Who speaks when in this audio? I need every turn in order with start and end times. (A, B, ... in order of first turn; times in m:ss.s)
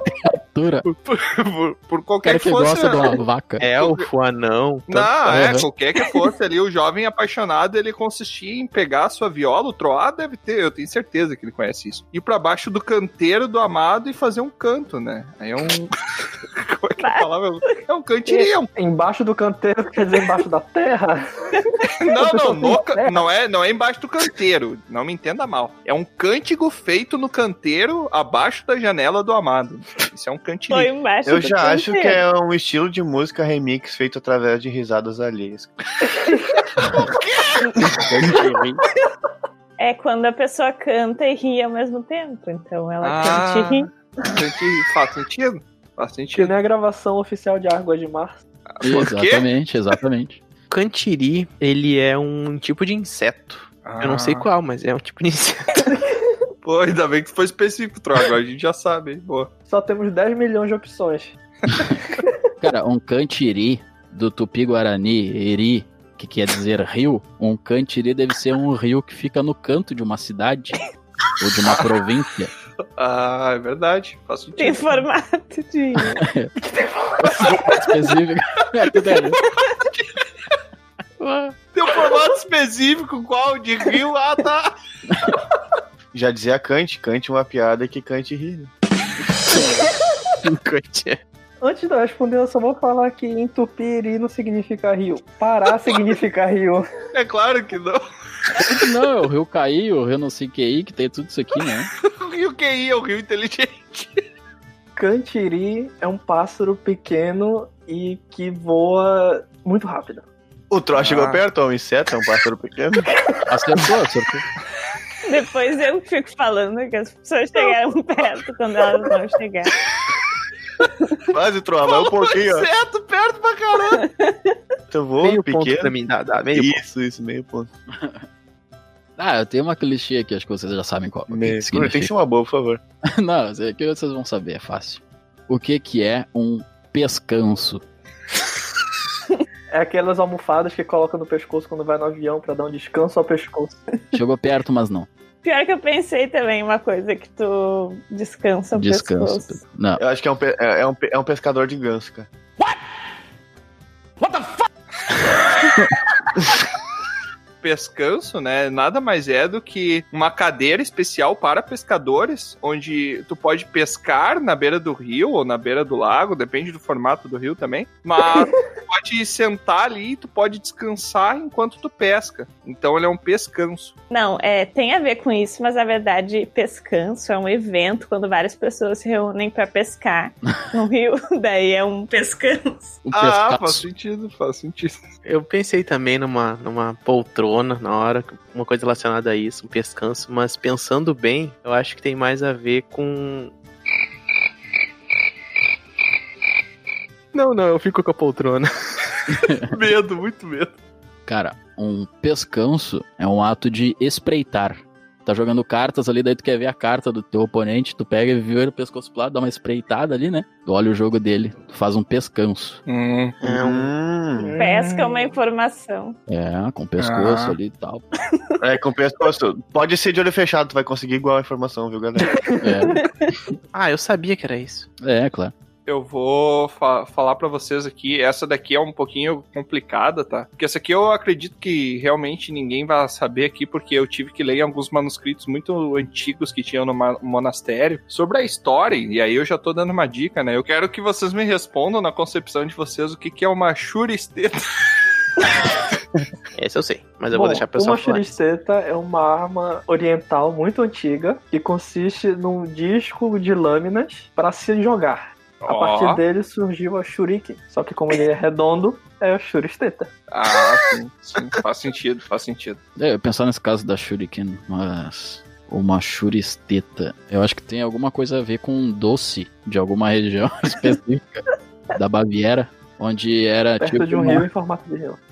0:00.2-0:00.8 A
0:00.8-0:03.2 B
0:02.2-0:03.6 A
0:03.6-0:05.5 C
0:03.8-0:04.1 B
0:04.9-0:15.9 B
0:05.3-0:05.6 A
0:16.5-0:18.7 B
0:17.0-0:17.3 D
0:18.8-0:21.2 E
0:22.0-0:30.9 B
0:22.2-0:23.2 E
0:30.7-0:32.2 D
0:31.2-0:35.7 F
0:38.0-0:38.8 A
0:39.8-0:43.9 D
0:43.0-0:46.5 B
0:46.3-0:48.4 E
0:48.8-0:49.4 B
0:48.8-0:50.4 A
0:50.7-0:55.9 C
0:53.8-0:54.5 B
0:56.6-0:59.5 B
0:59.7-1:01.3 E
1:02.6-1:10.9 A
1:11.4-1:12.5 A
1:11.6-1:11.9 B
1:13.0-1:15.0 B
1:14.6-1:16.2 D
1:16.2-1:16.5 A
1:16.6-1:17.6 E
1:17.2-1:19.4 A
1:19.7-1:20.0 B
1:21.2-1:21.5 C
1:21.7-1:24.7 B
1:26.1-1:28.7 F
1:30.4-1:31.2 C
1:31.6-1:36.8 E
1:37.1-1:38.0 B
1:38.6-1:41.9 A
1:42.1-1:44.2 B
1:45.0-1:50.2 E
1:50.7-1:53.1 F
1:50.9-1:51.4 B
1:53.5-1:54.4 A
1:55.2-1:59.8 D
2:01.3-2:02.7 F
2:01.8-2:04.0 B
2:04.0-2:04.5 D
2:04.9-2:05.9 F
2:05.2-2:06.8 C
2:06.5-2:07.7 F
2:09.2-2:12.1 A
2:11.3-2:12.8 F
2:13.2-2:17.8 A
2:19.7-2:23.8 E
2:24.1-2:25.1 A
2:25.4-2:29.6 D
2:28.7-2:30.0 A
2:30.0-2:32.3 F
2:37.6-2:53.9 B
2:54.1-3:03.0 D
3:03.0-3:03.8 A
3:03.1-3:05.0 B
3:05.2-3:13.5 C
3:17.3-3:19.2 C
3:19.7-3:20.7 B
3:21.3-3:32.8 A
3:32.9-3:33.4 B
3:33.4-3:33.9 C
3:33.4-3:34.5 F
3:34.4-3:35.3 E
3:34.6-3:36.2 D
3:36.3-3:38.0 A
3:37.0-3:37.6 B
3:38.6-3:42.4 F
3:42.3-3:42.9 E
3:42.6-3:43.0 A
3:43.7-3:44.9 C
3:45.0-3:45.5 A
3:45.8-4:04.6 B
4:06.5-4:08.3 C
4:07.3-4:20.1 E
4:15.6-4:16.2 B
4:20.3-4:22.8 B
4:23.0-4:34.4 A
4:33.8-4:35.2 E